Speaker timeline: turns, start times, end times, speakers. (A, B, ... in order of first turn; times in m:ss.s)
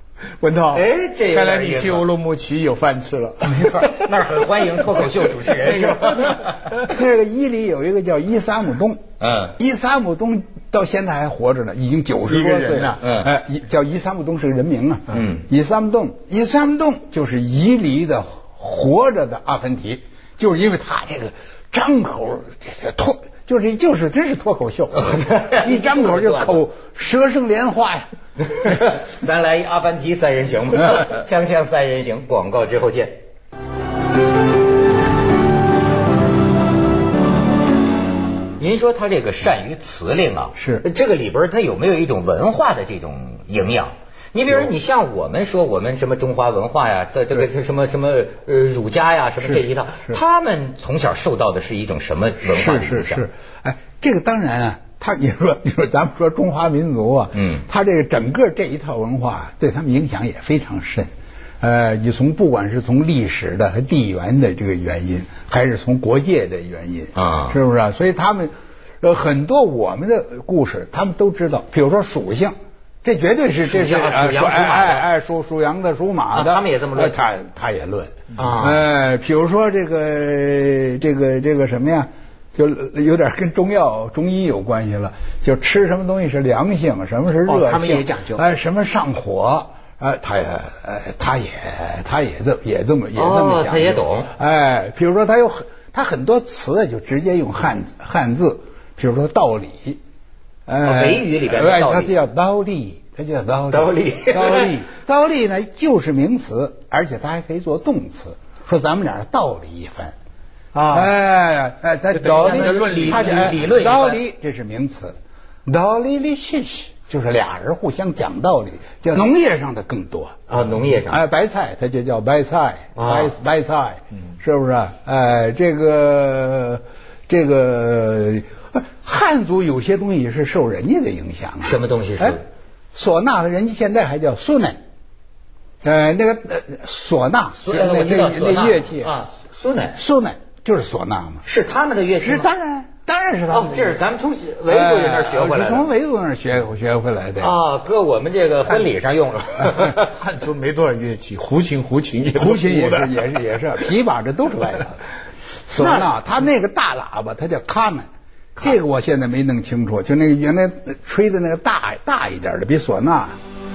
0:00.4-0:04.0 A
0:00.7-0:02.1 B
0:03.4-0:06.7 B
0:06.8-0:09.0 C
0:09.2-0:09.6 B
0:09.6-0:28.1 C
0:12.2-0:13.0 A
0:13.0-0:13.3 B
0:15.1-0:15.4 B
0:25.0-0:26.6 B
0:28.5-0:33.2 B
0:38.6-0:53.3 B
0:40.6-0:40.8 C
0:49.4-0:50.2 C
0:52.4-1:40.0 C
0:57.3-0:57.6 B
1:07.2-1:07.6 B
1:13.6-1:15.1 B
1:16.3-1:17.2 B
1:18.4-1:18.8 B
1:27.5-1:28.4 A
1:33.2-1:34.3 B
1:40.7-1:50.2 C
1:40.8-1:42.2 B
1:43.7-1:44.8 B
1:50.7-1:51.1 A
1:50.9-2:00.4 C
1:52.2-1:53.8 A
1:52.2-1:54.2 B
2:00.5-2:01.2 B
2:01.1-2:12.4 C
2:03.0-2:03.3 B
2:11.6-2:12.4 B
2:12.9-2:14.8 C
2:15.8-2:19.1 C
2:17.6-2:20.0 B
2:20.0-2:21.4 C
2:21.5-2:22.5 B
2:22.2-2:24.0 C
2:23.5-2:25.9 B
2:24.7-2:27.5 C
2:27.4-2:30.1 B
2:29.9-2:33.3 A
2:32.4-2:35.0 C
2:35.7-2:43.4 C
2:35.8-2:36.1 B